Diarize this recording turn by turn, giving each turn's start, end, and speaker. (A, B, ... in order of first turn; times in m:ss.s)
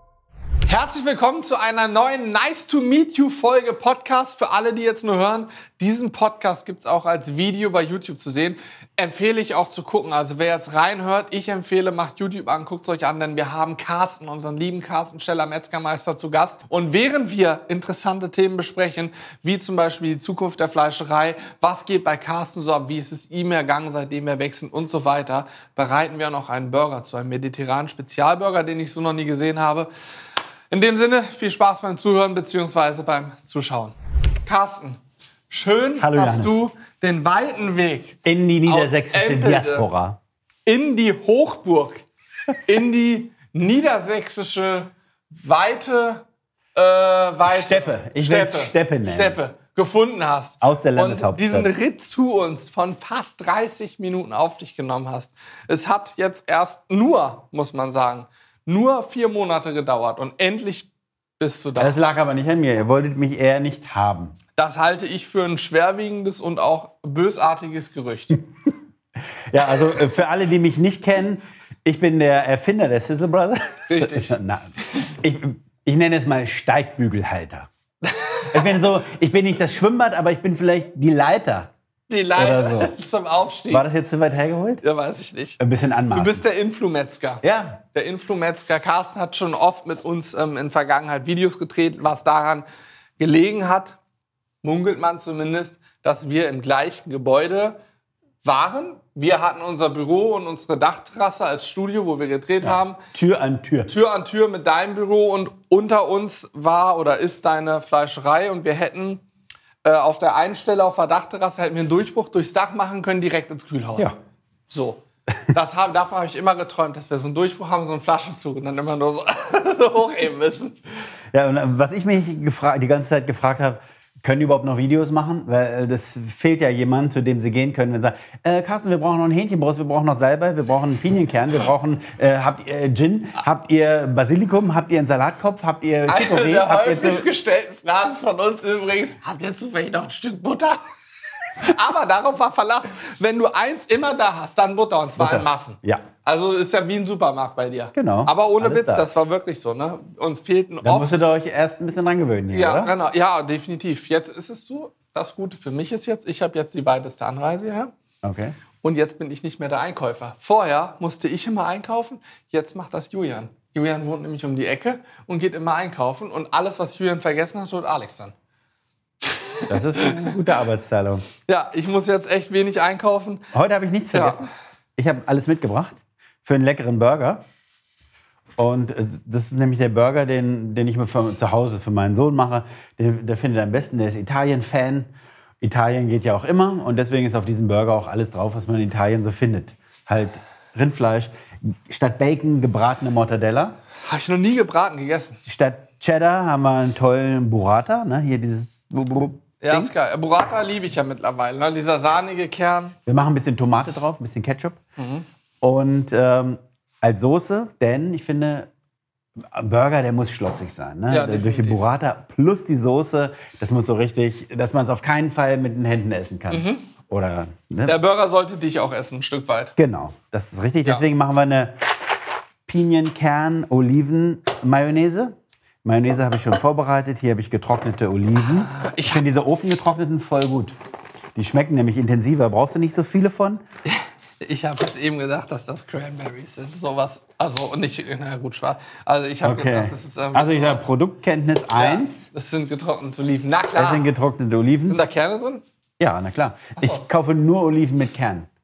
0:00.6-0:29.9 A
0:30.7-0:39.9 A
0:36.0-0:36.6 B
0:38.2-0:40.2 B
0:40.6-0:42.0 A
0:42.6-1:02.0 A
0:47.4-0:49.4 B
0:50.6-0:51.7 B
1:01.8-1:04.4 B
1:04.6-1:08.4 A
1:09.5-1:17.7 B
1:13.9-1:14.4 A
1:18.0-1:18.7 A
1:18.5-1:21.7 B
1:22.1-1:23.8 A
1:22.4-1:22.9 B
1:23.7-1:24.8 B
1:24.8-1:25.6 A
1:25.6-1:26.4 B
1:26.1-1:32.6 A
1:27.4-1:27.8 B
1:33.2-1:34.0 A
1:34.6-1:37.8 A
1:38.4-1:43.0 A
1:42.6-1:43.9 B
1:43.9-1:49.2 A
1:49.8-1:54.1 A
1:54.7-1:55.0 A
1:55.5-2:00.8 A
2:01.3-2:17.3 B
2:16.1-2:20.8 A
2:21.6-2:31.2 A
2:25.2-2:26.1 B
2:27.9-2:29.1 B
2:30.8-2:32.9 B
2:32.5-2:37.9 A
2:38.2-2:38.6 B
2:38.8-2:48.3 A
2:49.3-2:50.5 A
2:49.7-2:51.2 B
2:51.4-2:53.4 A
2:53.5-2:57.4 B
2:54.1-2:54.5 A
2:58.6-3:13.8 B
3:14.0-3:15.4 A
3:15.4-3:19.9 B
3:19.6-3:22.9 A
3:23.0-3:24.8 B
3:25.0-3:25.3 A
3:25.6-3:28.7 B
3:29.5-3:38.0 B
3:31.1-3:31.8 A
3:36.5-3:36.9 A
3:37.9-3:39.7 A
3:39.8-3:41.8 B
3:42.6-3:50.7 B
3:48.4-3:49.2 A
3:51.4-3:53.6 B
3:53.8-4:00.8 A
3:59.4-4:02.3 B
4:01.7-4:04.1 A
4:03.8-4:05.0 B
4:04.9-4:05.6 A
4:06.0-4:08.5 B